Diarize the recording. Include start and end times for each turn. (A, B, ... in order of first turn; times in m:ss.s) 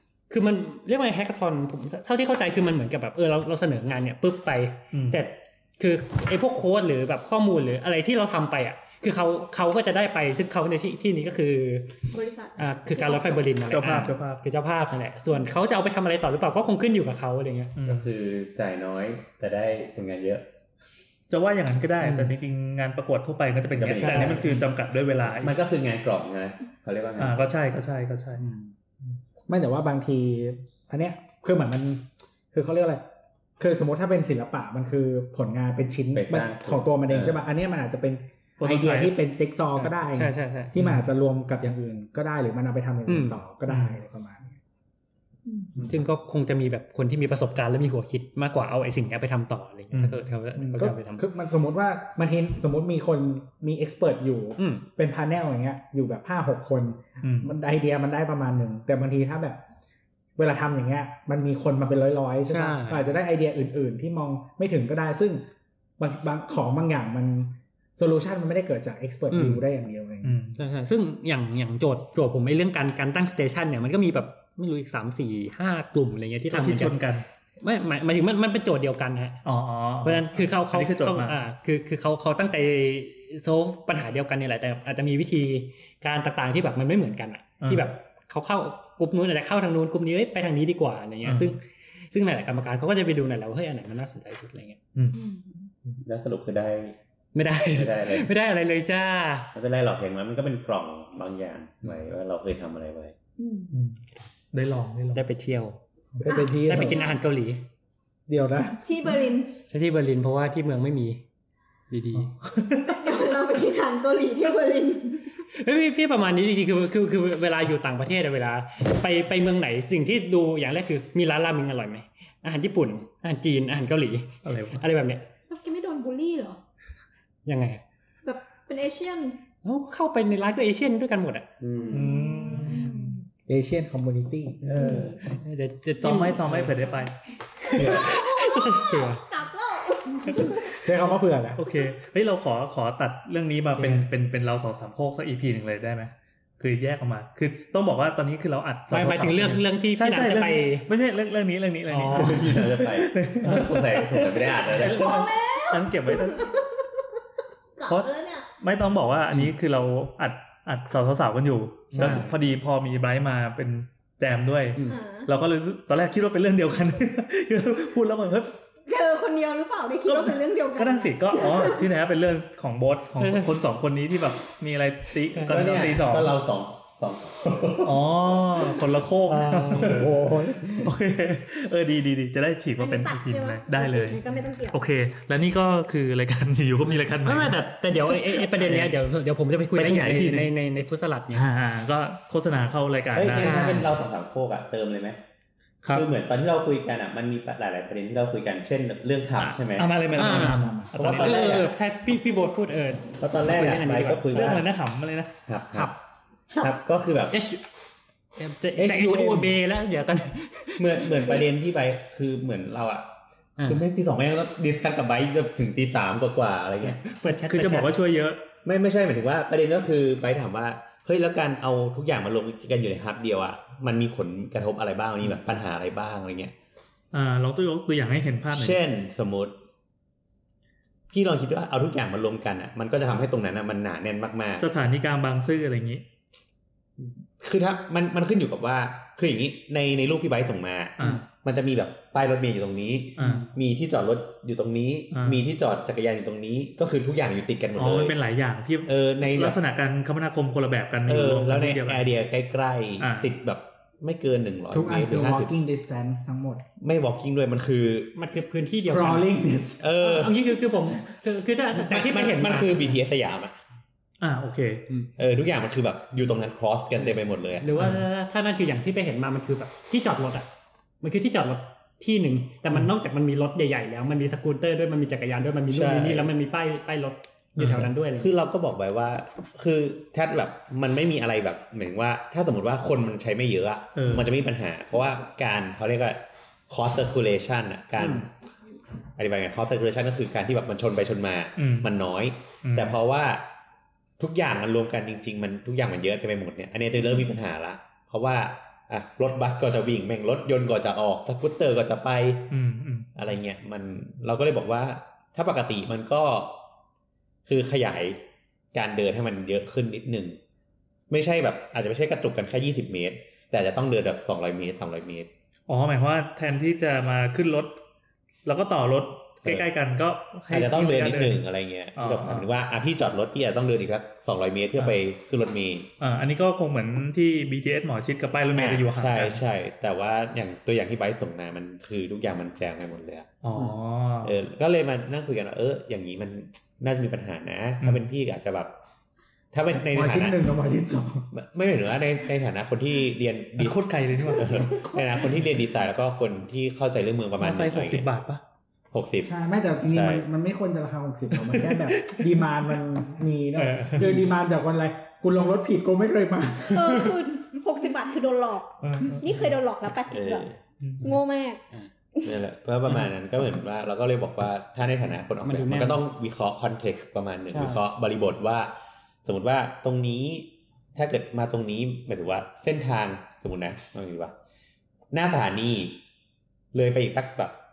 0:00.3-0:12.0 A
0:04.9-0:05.2 B
0:12.1-0:14.1 C
0:12.6-0:17.7 A
0:13.7-0:14.4 B
0:17.8-0:18.1 B
0:17.8-0:20.4 D
0:21.3-0:25.6 B
0:22.0-0:22.3 A
0:23.7-0:24.5 D
0:23.9-0:24.6 A
0:25.4-0:27.5 D
0:27.2-0:28.4 B
0:29.5-0:33.0 E
0:33.6-0:44.5 E
0:36.1-0:37.4 D
0:38.6-0:39.1 B
0:39.7-0:40.7 A
0:40.8-0:41.0 B
0:43.1-0:43.4 A
0:43.7-0:44.0 B
0:45.5-0:45.7 C
0:45.8-0:51.3 A
0:49.9-0:50.2 B
0:50.6-0:59.6 E
0:54.6-0:54.8 A
0:57.2-0:57.5 B
1:00.4-1:05.4 E
1:02.5-1:03.1 A
1:06.0-1:10.4 E
1:09.3-1:09.6 A
1:10.2-1:10.6 B
1:10.6-1:17.0 A
1:16.5-1:17.2 B
1:17.6-1:19.4 A
1:19.4-1:21.4 B
1:20.0-1:34.8 A
1:27.6-1:27.9 B
1:31.2-1:31.6 B
1:35.1-1:35.7 C
1:36.0-1:37.0 D
1:37.3-1:39.5 A
1:37.6-1:38.3 D
1:39.5-1:43.2 D
1:43.4-1:43.8 C
1:43.7-1:44.0 B
1:44.5-1:45.2 B
1:45.1-1:45.8 A
1:46.2-1:47.0 E
1:46.3-1:47.2 C
1:46.6-1:47.6 A
1:48.3-1:48.8 E
1:48.8-1:49.5 C
1:49.7-1:51.2 A
1:51.9-1:52.3 A
1:52.1-1:53.1 B
1:52.9-1:55.2 C
1:55.5-2:05.2 A
2:04.4-2:04.8 B
2:05.5-2:06.6 C
2:07.4-2:07.8 A
2:08.2-2:09.4 C
2:09.6-2:11.5 A
2:11.6-2:12.2 D
2:11.9-2:13.1 B
2:11.9-2:13.2 C
2:13.5-2:14.8 E
2:14.7-2:16.8 A
2:14.8-2:15.2 C
2:16.0-2:17.1 B
2:17.6-2:19.2 A
2:17.9-2:20.8 C
2:20.7-2:21.6 E
2:21.6-2:36.6 B
2:23.7-2:24.1 A
2:28.9-2:30.9 A
2:31.9-2:32.6 A
2:32.1-2:35.2 D
2:34.8-2:36.8 C
2:37.8-2:38.5 C
2:37.8-2:48.6 B
2:41.9-2:42.4 A
2:44.8-2:45.3 C
2:48.8-2:51.9 C
2:50.0-2:56.4 B
2:53.2-2:53.6 A
2:55.3-2:55.6 A
2:55.5-2:58.1 D
2:57.8-3:08.9 B
2:59.2-3:00.0 A
2:59.8-3:00.9 E
3:02.8-3:04.8 C
3:07.1-3:11.5 A
3:09.7-3:10.5 B
3:11.3-3:13.7 B
3:13.1-3:15.2 D
3:13.4-3:13.9 A
3:15.9-3:20.0 D
3:19.4-3:21.6 B
3:20.1-3:24.6 A
3:20.2-3:20.9 E
3:20.9-3:21.7 D
3:23.2-3:24.6 D
3:24.3-3:25.3 B
3:25.5-3:25.9 D
3:26.6-3:27.3 D
3:27.3-3:27.6 A
3:28.4-3:31.4 A
3:28.8-3:29.6 E
3:30.8-3:33.1 D
3:33.6-3:33.8 A
3:33.6-3:37.0 D
3:36.8-3:37.9 A
3:37.4-3:38.4 B
3:38.6-3:46.5 D
3:47.1-3:48.8 B
3:48.5-3:49.6 D
3:51.1-3:54.6 D
3:54.6-3:56.0 B
3:57.4-4:08.2 D
4:01.0-4:01.2 B
4:03.2-4:03.5 B
4:03.2-4:03.5 A
4:05.1-4:05.4 B
4:07.8-4:12.1 B
4:08.9-4:09.6 D
4:11.1-4:15.5 D
4:13.0-4:13.3 B
4:14.7-4:16.6 E
4:16.8-4:18.1 D
4:18.1-4:19.3 A
4:18.9-4:19.9 E
4:19.8-4:20.4 D
4:20.0-4:22.9 A
4:21.7-4:23.6 D
4:24.2-4:24.8 B
4:25.2-4:27.8 D
4:27.0-4:30.5 A
4:27.7-4:28.0 B
4:31.0-4:38.3 A
4:35.7-4:36.3 D
4:37.6-4:37.9 B
4:37.6-4:48.3 D
4:44.0-4:44.3 B
4:48.0-4:48.3 A
4:49.2-4:53.5 D
4:51.6-4:51.9 B
4:52.6-4:53.0 B
4:54.2-5:02.5 D
5:02.5-5:03.1 B
5:03.2-5:06.6 D
5:07.4-5:08.2 D
5:08.7-5:10.4 D
5:11.1-5:15.3 D
5:15.7-5:17.8 B
5:18.4-5:21.4 B
5:20.5-5:25.9 D
5:22.0-5:22.5 B
5:26.0-5:29.4 B
5:28.5-5:33.3 D
5:33.4-5:34.4 B
5:34.2-5:38.7 D
5:39.5-5:40.5 D
5:39.7-5:41.3 E
5:41.3-5:48.1 D
5:43.6-5:44.6 B
5:44.6-5:45.0 E
5:47.4-5:48.4 B
5:48.9-5:49.3 D
5:49.2-5:57.0 E
5:49.9-5:50.3 D
5:51.3-5:52.8 B
5:53.6-5:54.2 B
5:54.0-5:54.2 A
5:56.7-6:00.5 C
5:58.8-5:59.4 B
6:00.1-6:00.6 D
6:01.0-6:01.6 C
6:02.2-6:08.7 D
6:05.4-6:06.0 A
6:07.5-6:07.8 A
6:09.2-6:14.3 D
6:15.1-6:16.0 D
6:16.7-6:17.6 D